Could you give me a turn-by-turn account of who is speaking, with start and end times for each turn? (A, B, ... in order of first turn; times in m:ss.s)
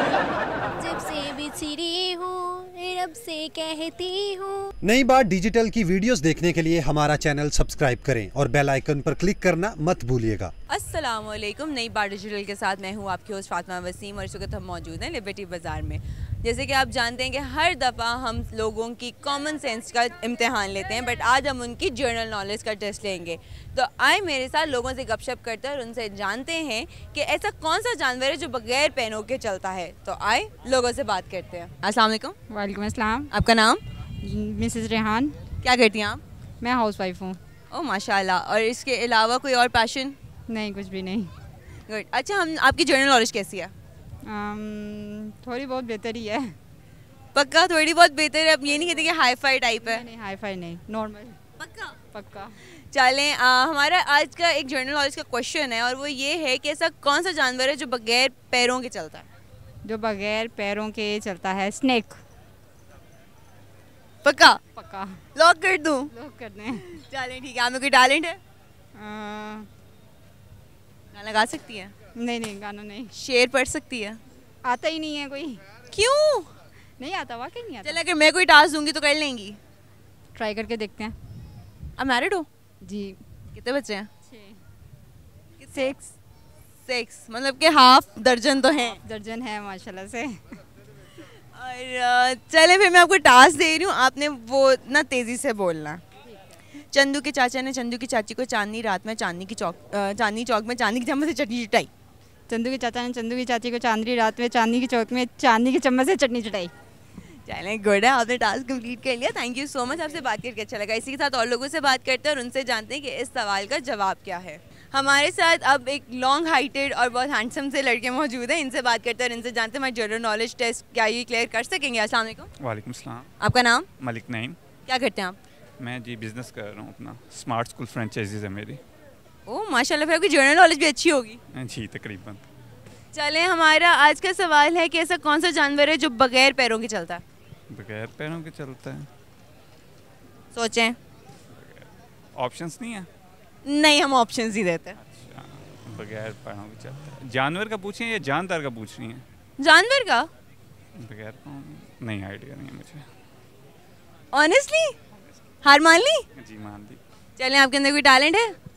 0:00.8-0:04.7 A
0:04.9-0:10.5 B
0:10.7-0:32.4 C
0:32.5-0:33.3 D
0:33.3-0:33.8 C
0:34.2-0:35.4 D
0:35.6-0:36.2 C
0:36.6-0:37.4 D
0:37.7-0:40.2 C
0:40.5-0:41.3 D
0:41.9-0:43.7 C
0:44.3-0:46.5 D
0:47.3-0:50.0 C
0:49.8-0:51.4 D
0:51.6-0:52.0 C
0:52.1-0:52.6 D
0:52.8-0:59.3 C
0:59.8-1:02.2 D
1:04.2-1:04.6 C
1:04.7-1:05.2 D
1:05.3-1:06.1 C
1:06.1-1:06.8 D
1:06.9-1:08.4 C
1:09.0-1:09.7 D
1:11.1-1:11.9 C
1:12.2-1:13.1 D
1:13.1-1:14.2 C
1:14.6-1:15.6 D
1:15.9-1:16.5 C
1:17.0-1:18.0 D
1:17.8-1:19.6 C
1:20.4-1:21.1 D
1:22.0-1:22.5 C
1:22.8-1:23.2 D
1:23.5-1:24.1 C
1:24.3-1:24.6 D
1:25.6-1:26.1 C
1:26.9-1:29.0 C
1:29.0-1:30.6 D
1:31.4-1:36.0 C
1:36.2-1:36.6 D
1:36.9-1:41.9 C
1:42.5-1:46.7 D
1:47.4-2:02.5 C
2:02.6-2:03.3 E
2:03.4-2:03.9 C
2:04.0-2:04.6 E
2:04.9-2:05.4 C
2:05.8-2:08.8 E
2:09.5-2:11.4 C
2:11.5-2:12.4 E
2:13.1-2:17.2 C
2:17.7-2:19.1 E
2:20.5-2:21.0 C
2:21.5-2:23.1 E
2:23.6-2:25.0 C
2:25.0-2:29.2 E
2:29.6-2:30.3 C
2:31.0-2:33.1 E
2:34.3-2:35.0 C
2:35.1-2:35.4 E
2:35.6-2:36.2 C
2:36.4-2:37.0 E
2:37.4-2:38.5 C